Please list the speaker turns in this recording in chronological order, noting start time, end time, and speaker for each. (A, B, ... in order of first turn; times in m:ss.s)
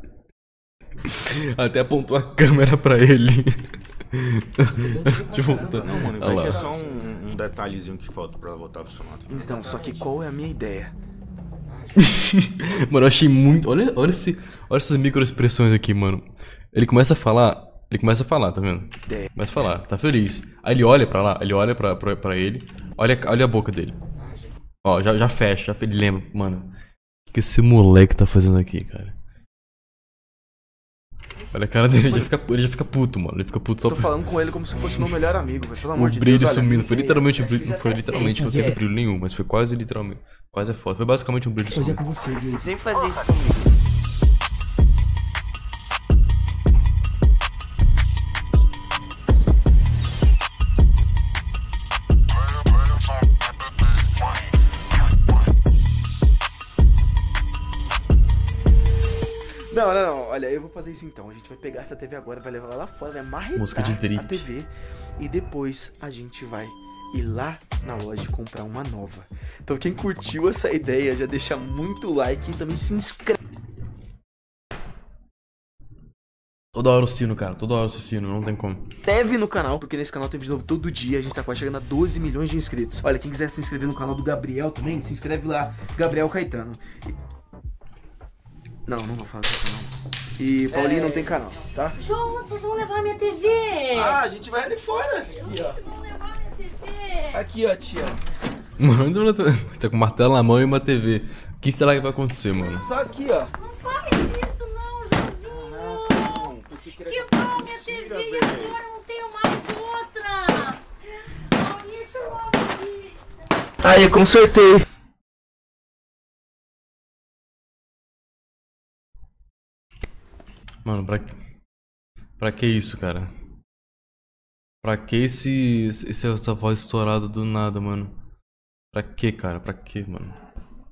0:01.1-0:06.6 A
0:04.8-0:06.0 B
0:05.3-0:07.0 C
0:05.8-0:09.4 D
0:09.3-0:10.9 B
0:09.3-0:10.1 C
0:11.7-0:12.2 C
0:12.0-0:24.0 A
0:24.2-0:24.6 C
0:24.8-0:26.7 A
0:27.3-0:29.2 A
0:31.4-0:32.2 C
0:31.5-0:34.1 A
0:33.9-0:37.2 B
0:35.9-0:42.0 A
0:37.2-0:38.8 C
0:38.2-0:38.8 B
0:41.7-0:42.7 B
0:42.3-0:43.8 C
0:59.7-1:13.4 B
1:03.6-1:04.5 A
1:16.7-1:18.9 A
1:19.0-1:27.2 B
1:28.9-1:32.0 B
1:30.7-1:31.4 C
1:32.0-1:34.2 E
1:33.9-1:35.8 B
1:35.3-1:37.4 E
1:37.3-1:38.2 B
1:38.8-1:42.9 A
1:42.5-1:43.5 B
1:43.6-1:46.5 E
1:45.4-1:48.8 D
1:47.0-1:50.8 E
1:51.5-1:53.2 E
1:53.8-1:54.8 B
2:00.8-2:01.4 A
2:02.4-2:03.3 A
2:04.8-2:08.1 A
2:08.9-2:10.4 A